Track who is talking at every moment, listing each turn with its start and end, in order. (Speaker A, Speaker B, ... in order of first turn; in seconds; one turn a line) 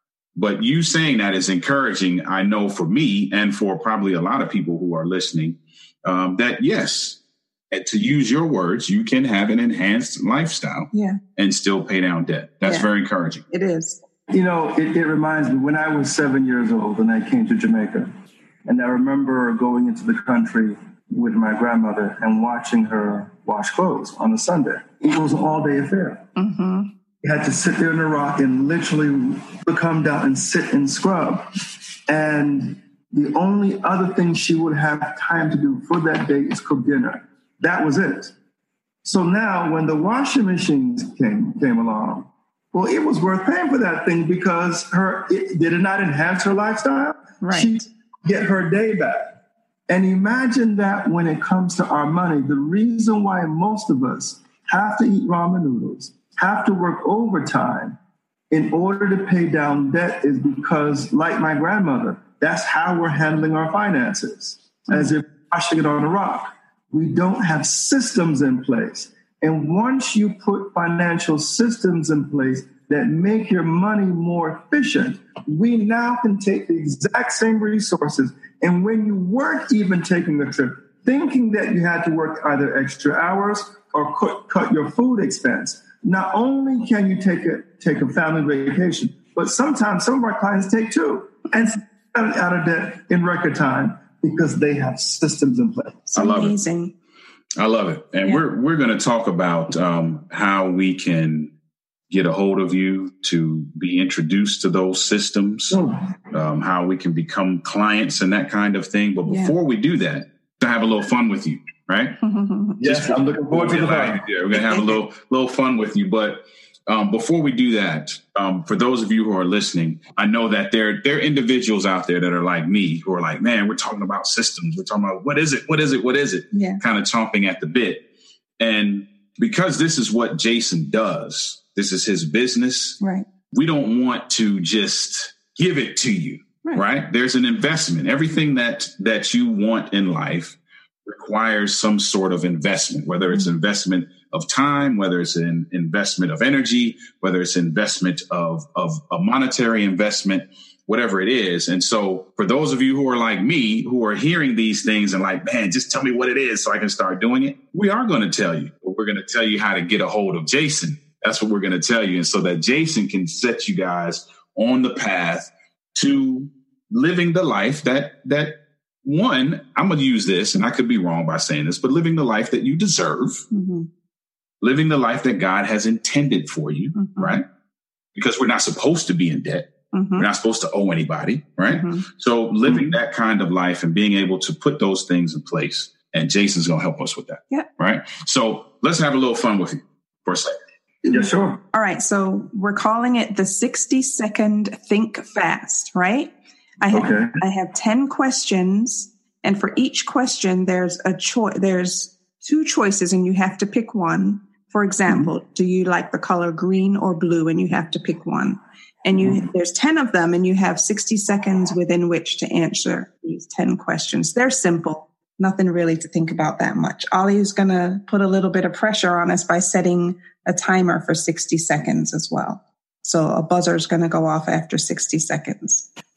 Speaker A: 0.3-7.2
Speaker A: 7.7-13.4
Speaker B: 10.9-11.2
Speaker B: 12.6-12.9
Speaker B: 13.5-14.0
Speaker C: 14.3-18.1
Speaker C: 18.6-26.3
Speaker B: 26.4-26.9
Speaker C: 27.2-31.5
Speaker C: 32.1-38.3
Speaker C: 39.0-58.0
Speaker B: 47.4-47.8
Speaker C: 58.5-96.1
Speaker B: 96.1-96.9
Speaker A: 96.2-96.6
Speaker A: 97.6-101.5
Speaker A: 102.1-105.8
Speaker C: 105.7-106.0
Speaker A: 106.3-112.2
Speaker B: 109.3-109.5
Speaker B: 112.2-112.8
Speaker C: 112.8-114.2
Speaker A: 112.8-128.0
Speaker B: 126.5-126.8
Speaker A: 128.6-133.0
Speaker B: 133.0-133.2
Speaker A: 133.5-173.4
Speaker B: 173.5-173.9
Speaker A: 174.6-177.4
Speaker B: 176.9-177.4
Speaker A: 178.1-190.5
Speaker B: 179.9-180.2
Speaker B: 181.8-182.0
Speaker C: 182.7-182.9
Speaker C: 191.0-191.6
Speaker B: 191.1-225.9
Speaker C: 196.9-197.4